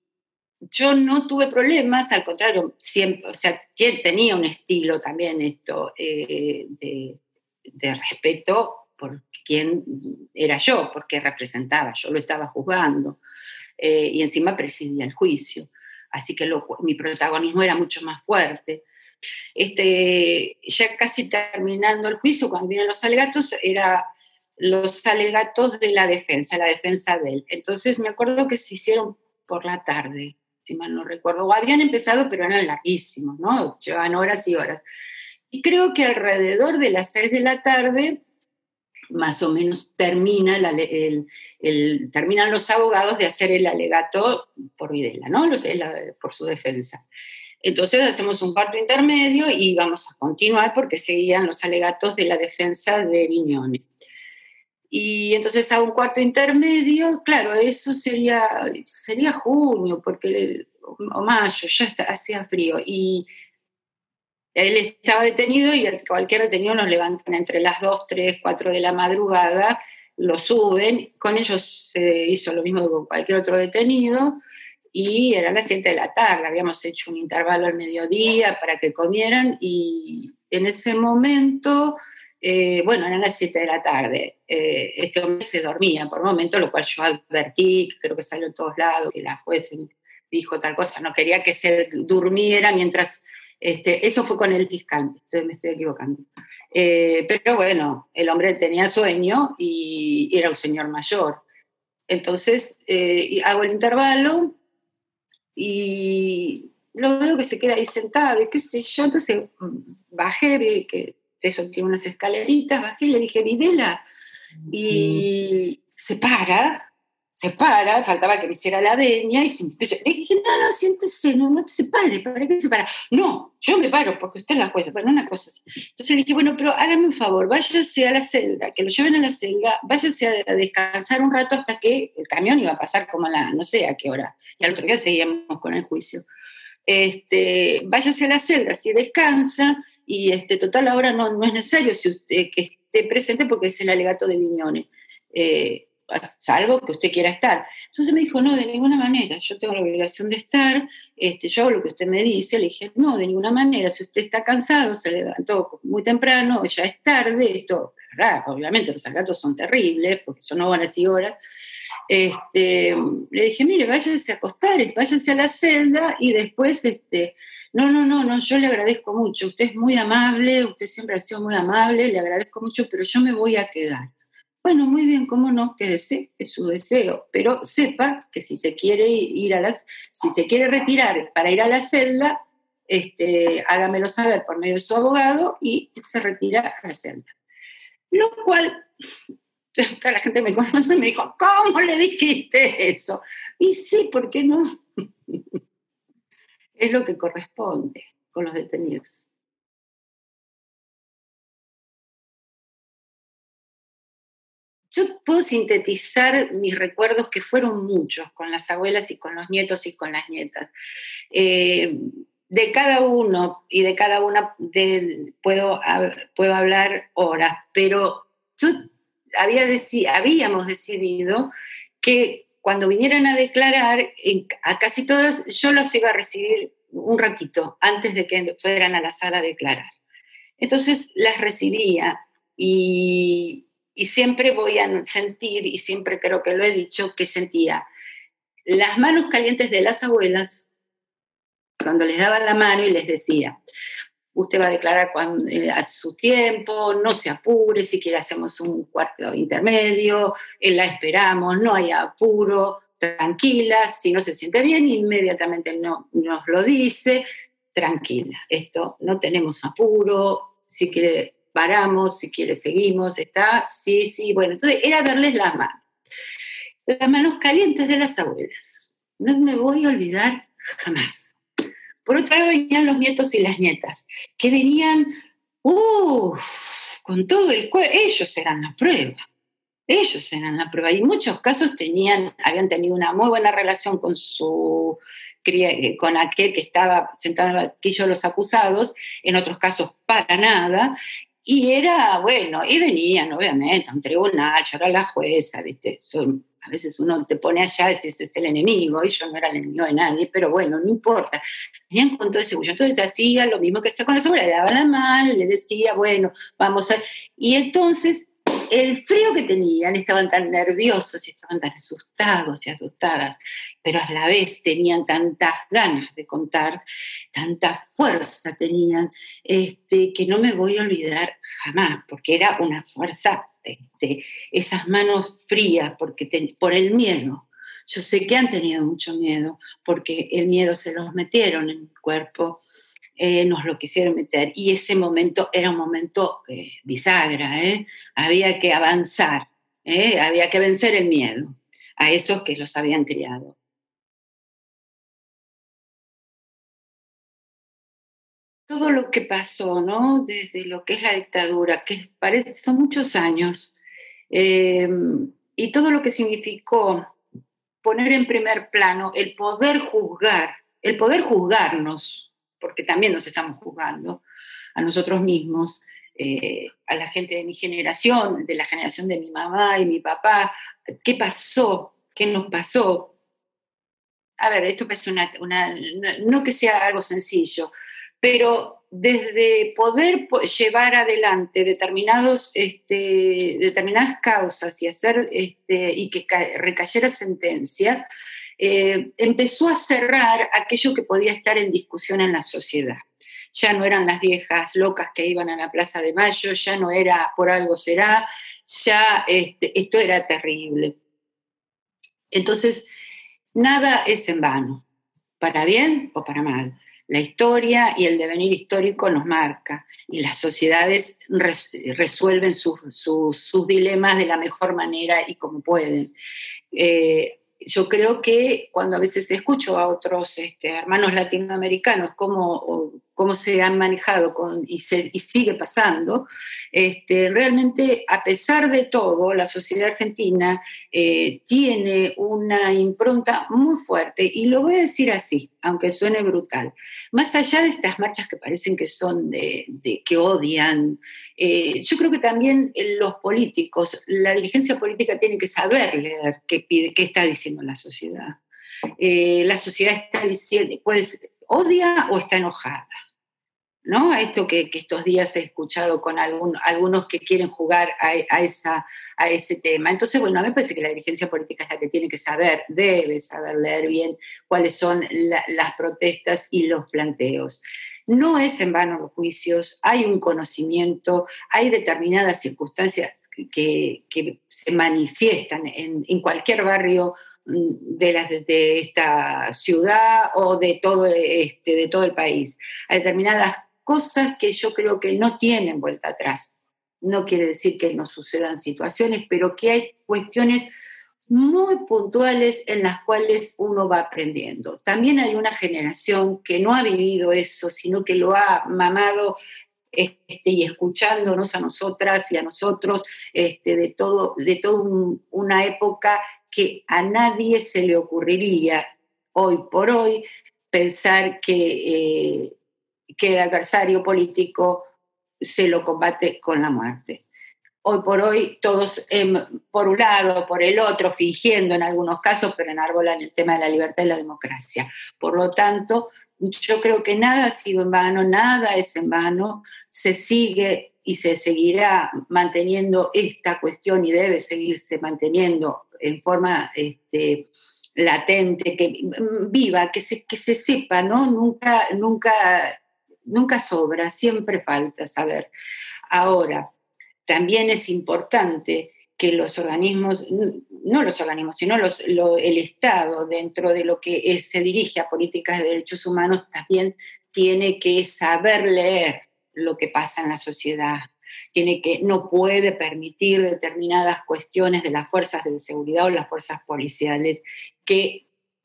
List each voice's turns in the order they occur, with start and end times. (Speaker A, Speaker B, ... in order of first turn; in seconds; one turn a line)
Speaker A: 0.7-7.2
Speaker A: 7.7-13.2
Speaker A: 13.8-18.8
Speaker A: 19.6-24.1
Speaker A: 24.6-34.8
Speaker A: 35.5-38.2
Speaker A: 39.1-47.0
Speaker A: 47.6-53.8
Speaker A: 54.9-63.3
Speaker A: 64.5-74.4
Speaker A: 74.9-101.4
Speaker A: 102.1-104.6
Speaker A: 105.5-114.0
Speaker A: 114.7-136.2
Speaker A: 136.9-161.4
Speaker A: 162.1-174.1
Speaker A: 174.6-187.3
Speaker A: 188.1-188.9
Speaker A: 189.8-194.8
Speaker A: 195.3-195.6
Speaker A: 196.8-199.3
Speaker A: 204.9-210.7
Speaker A: 211.3-230.0
Speaker A: 230.6-237.9
Speaker A: 238.7-240.7
Speaker A: 241.8-243.6
Speaker A: 244.3-265.8
Speaker A: 266.9-271.4
Speaker A: 272.1-279.2
Speaker A: 279.9-316.8
Speaker A: 317.3-332.6
Speaker A: 333.2-343.6
Speaker A: 348.7-353.8
Speaker A: 354.3-357.1
Speaker A: 357.8-364.2
Speaker A: 364.8-370.5
Speaker A: 371.0-373.1
Speaker A: 374.4-388.1
Speaker A: 388.6-401.0
Speaker A: 402.3-402.9
Speaker A: 403.6-404.9
Speaker A: 405.4-416.1
Speaker A: 416.7-448.4
Speaker A: 449.0-452.9
Speaker A: 453.9-490.7
Speaker A: 491.3-499.4
Speaker A: 499.9-512.5
Speaker A: 513.2-514.9
Speaker A: 515.4-517.2
Speaker A: 517.8-545.5
Speaker A: 546.1-546.7
Speaker A: 547.3-568.3